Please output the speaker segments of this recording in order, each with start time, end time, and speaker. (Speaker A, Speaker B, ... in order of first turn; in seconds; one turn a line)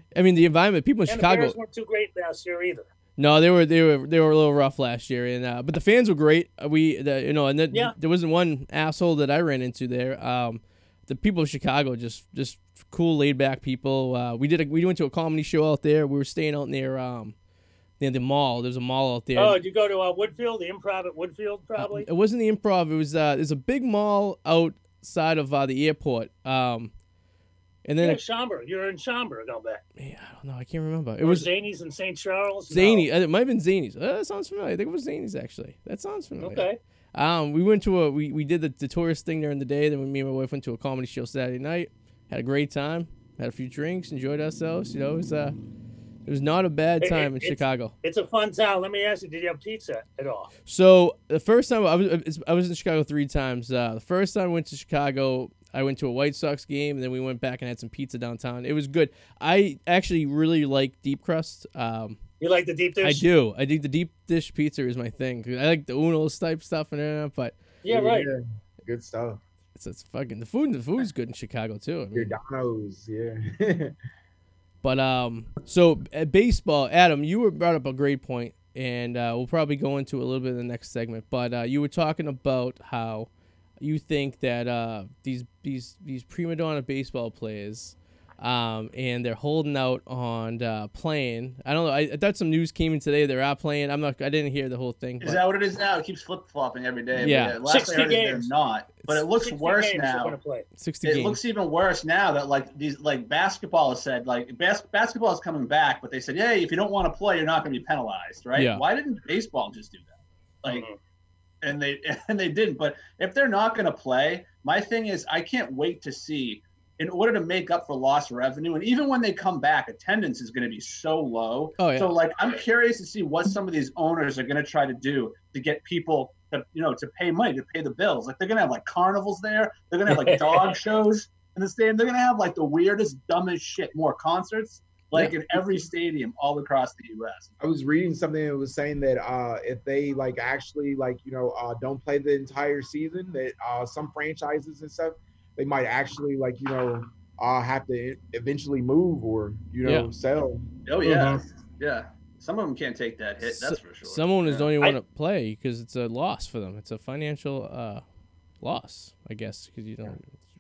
Speaker A: 0.1-1.6
Speaker B: 1.1-2.9
Speaker A: 3.2-17.4
Speaker A: 18.0-19.6
Speaker B: 19.4-22.1
Speaker A: 21.8-26.9
Speaker A: 27.9-28.2
Speaker B: 28.0-29.8
Speaker A: 30.0-31.5
Speaker B: 31.2-33.1
Speaker A: 32.7-45.6
Speaker B: 36.4-36.8
Speaker A: 46.2-47.9
Speaker B: 47.0-50.5
Speaker A: 50.7-62.2
Speaker B: 62.4-63.2
Speaker A: 63.0-67.5
Speaker B: 67.8-68.3
Speaker C: 67.9-69.4
Speaker A: 69.7-72.4
Speaker C: 72.1-74.0
Speaker A: 74.8-95.4
Speaker D: 95.2-100.4
Speaker A: 97.2-97.6
Speaker B: 97.6-98.5
Speaker B: 99.4-100.7
Speaker A: 100.8-101.4
Speaker D: 101.0-110.1
Speaker A: 108.5-108.8
Speaker B: 110.7-111.0
Speaker D: 111.6-137.5
Speaker A: 121.8-122.1
Speaker B: 130.1-130.8
Speaker C: 137.6-150.7
Speaker A: 149.8-150.1
Speaker D: 150.9-154.7
Speaker B: 151.0-151.4
Speaker A: 153.4-158.0
Speaker A: 158.6-160.3